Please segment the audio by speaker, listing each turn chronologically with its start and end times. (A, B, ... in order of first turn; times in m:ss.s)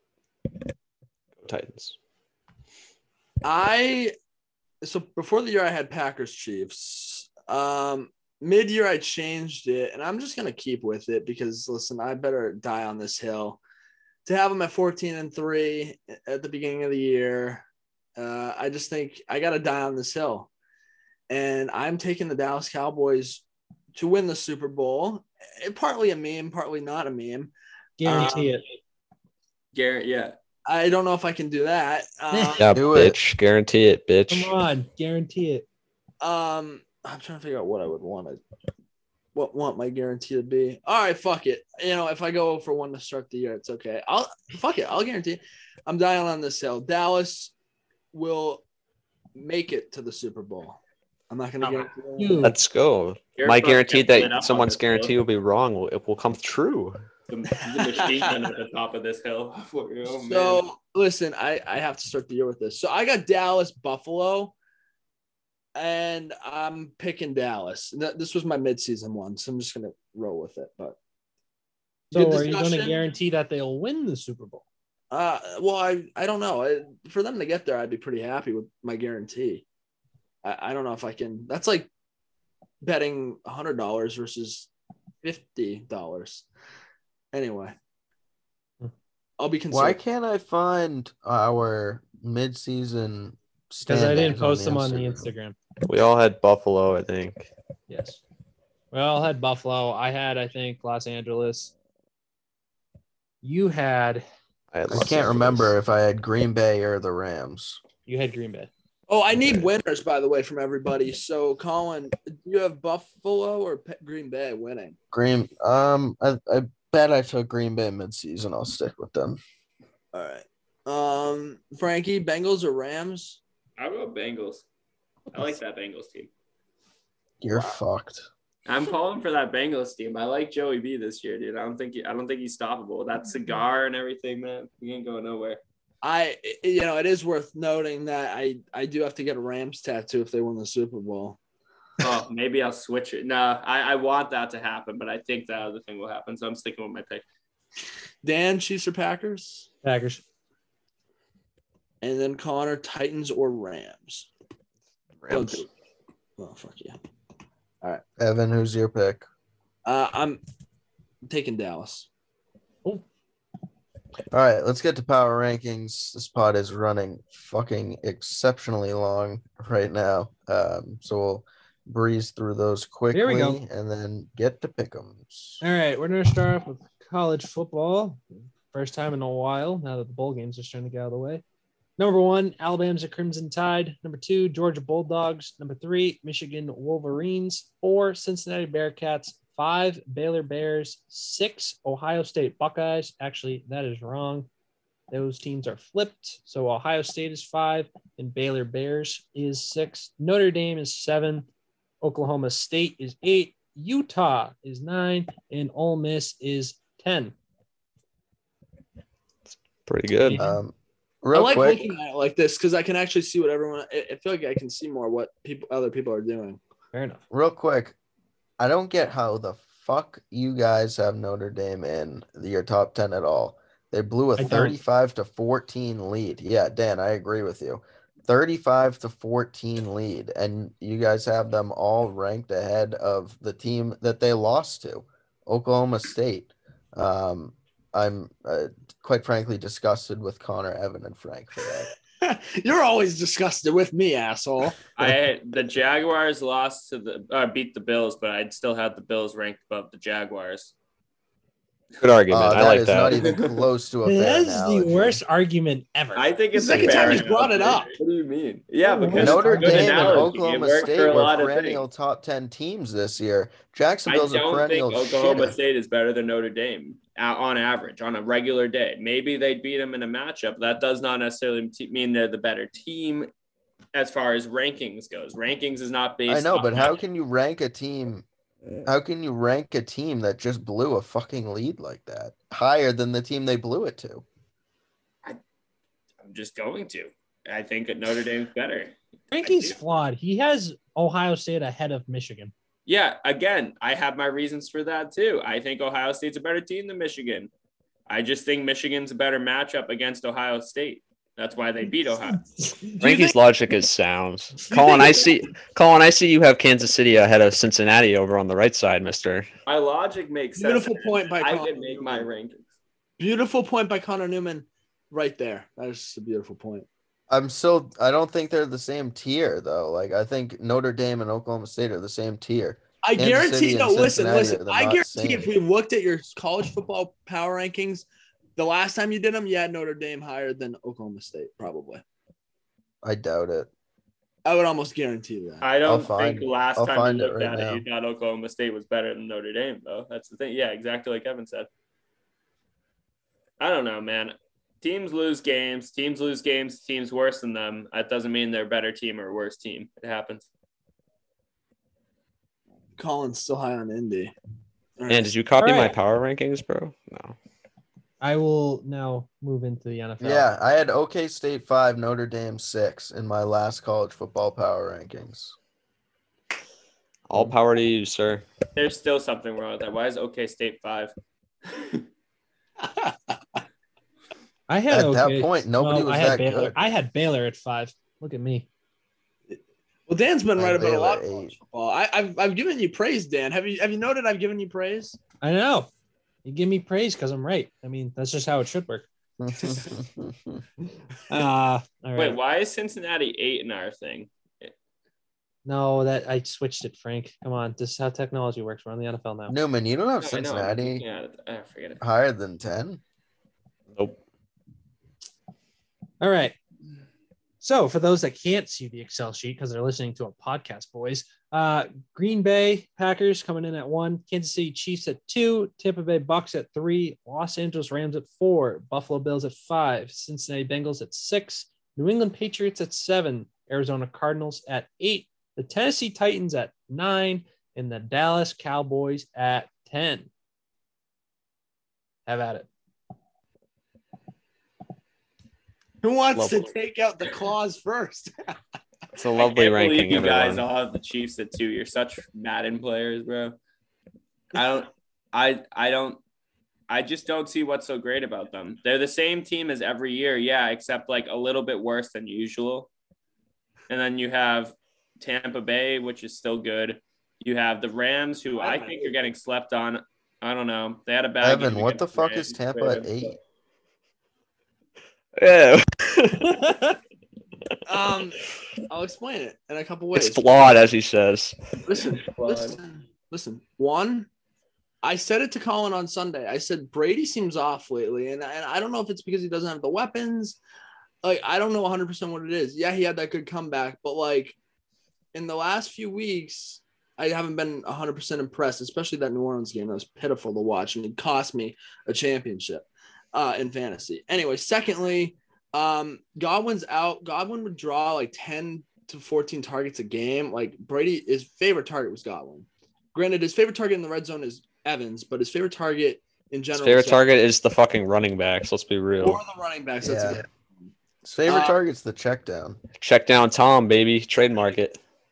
0:01.4-0:02.0 A
0:03.4-0:04.1 B
0:04.8-0:13.6 B
0:14.3-0:17.6 B
0:18.2-0:20.5 B
0:21.3-0:27.5 B
0:28.0-0:28.6 C
0:28.0-0:28.6 B
0:29.7-0:30.4 D
0:30.7-0:32.8 B
0:32.3-0:32.6 C
0:32.6-0:34.5 A
0:32.7-0:33.2 E
0:34.3-0:35.6 C
0:36.2-0:38.4 B
0:39.4-0:47.5 B
0:48.1-0:48.6 B
0:49.4-0:52.4 B
0:51.8-0:52.6 C
0:52.4-0:57.0 A
0:53.4-0:55.1 D
0:57.3-1:00.6 D
0:57.7-0:58.4 B
1:00.0-1:04.5 B
1:05.8-1:11.0 B
1:12.1-1:14.6 C
1:12.1-1:13.0 B
1:15.1-1:19.6 B
1:20.4-1:21.9 B
1:22.8-1:24.7 B
1:25.2-1:26.5 B
1:27.3-1:27.8 B
1:29.4-1:30.0 B
1:29.7-1:35.3 E
1:33.8-1:35.6 C
1:35.9-1:37.5 A
1:37.9-1:38.2 C
1:38.9-1:41.7 C
1:43.4-1:44.2 C
1:44.7-1:45.7 A
1:44.9-1:47.8 E
1:48.1-1:48.7 C
1:49.1-1:55.0 B
1:55.1-1:59.4 E
2:00.1-2:03.4 B
2:03.8-2:04.6 D
2:05.3-2:06.3 D
2:07.4-2:08.3 E
2:08.7-2:15.6 D
2:16.0-2:21.4 B
2:22.0-2:27.2 D
2:28.2-2:29.7 B
2:29.8-2:30.2 C
2:32.0-2:34.3 B
2:35.2-2:35.6 A
2:35.3-2:35.7 B
2:36.4-2:37.0 B
2:38.2-2:39.3 E
2:39.8-2:40.4 B
2:41.3-2:42.1 B
2:44.3-2:55.6 E
2:53.1-2:53.6 C
2:55.6-3:01.4 C
3:02.0-3:14.5 C
3:15.1-3:21.5 C
3:22.0-3:27.4 C
3:29.9-3:30.5 A
3:30.2-3:30.6 C
3:30.4-3:31.9 E
3:31.3-3:36.6 B
3:36.9-3:37.2 C
3:37.3-3:38.0 E
3:38.6-4:01.9 E
3:44.4-3:44.8 C
4:02.2-4:04.8 B
4:05.0-4:10.7 D
4:12.0-4:13.2 A
4:12.3-4:15.2 E
4:13.1-4:13.5 D
4:14.0-4:16.3 C
4:16.2-4:21.8 D
4:16.5-4:18.0 B
4:16.8-4:17.3 E
4:18.8-4:20.3 C
4:19.1-4:25.6 E
4:24.1-4:33.3 D
4:33.9-4:37.0 D
4:36.3-4:38.2 E
4:38.9-4:44.2 E
4:46.2-4:49.8 D
4:49.3-4:52.5 C
4:52.9-4:57.5 D
4:58.1-5:02.5 D
5:02.8-5:03.3 B
5:03.0-5:09.5 A
5:04.7-5:05.4 B
5:09.7-5:12.6 D
5:10.6-5:12.3 B
5:13.2-5:16.9 B
5:17.3-5:25.5 E
5:23.0-5:32.0 B
5:33.0-5:33.7 E
5:34.4-5:35.7 B
5:35.6-5:41.7 D
5:35.8-5:37.8 E
5:43.6-5:50.4 D
5:53.0-5:54.3 B
5:55.0-5:55.4 B
5:55.1-5:57.4 A
5:55.6-5:56.0 C
5:58.2-6:00.5 C
6:00.2-6:05.6 E
6:07.3-6:08.4 A
6:08.8-6:11.1 D
6:11.7-6:12.0 D
6:12.8-6:13.6 B
6:14.7-6:18.7 C
6:14.9-6:16.8 E
6:19.5-6:25.2 B
6:20.6-6:21.6 E
6:25.4-6:25.9 C
6:26.4-6:29.1 C
6:29.4-6:30.6 E
6:31.3-6:32.4 C
6:32.2-6:34.7 D
6:35.6-6:39.6 C
6:39.5-6:41.0 E
6:40.2-6:42.0 D
6:42.0-6:43.0 E
6:43.9-6:44.2 A
6:46.2-6:46.6 C
6:47.6-7:10.3 C
7:12.3-7:12.7 C
7:16.0-7:18.5 B
7:16.4-7:16.7 A
7:19.2-7:20.6 A
7:19.4-7:23.6 D
7:24.5-7:26.2 D
7:26.9-7:32.9 D
7:33.9-7:43.3 D
7:38.6-7:39.1 B
7:41.4-7:43.4 E
7:45.4-7:46.6 A
7:46.4-7:47.0 C
7:47.9-7:50.7 B
7:50.1-7:51.6 A
7:51.8-7:54.3 B
7:52.4-7:52.8 D
7:55.0-8:00.6 B
8:01.2-8:04.6 B
8:05.3-8:27.3 B
8:26.7-8:29.4 A
8:29.2-8:30.5 B
8:30.0-8:30.4 E
8:31.2-8:32.8 E
8:31.5-8:31.8 B
8:33.0-8:35.0 A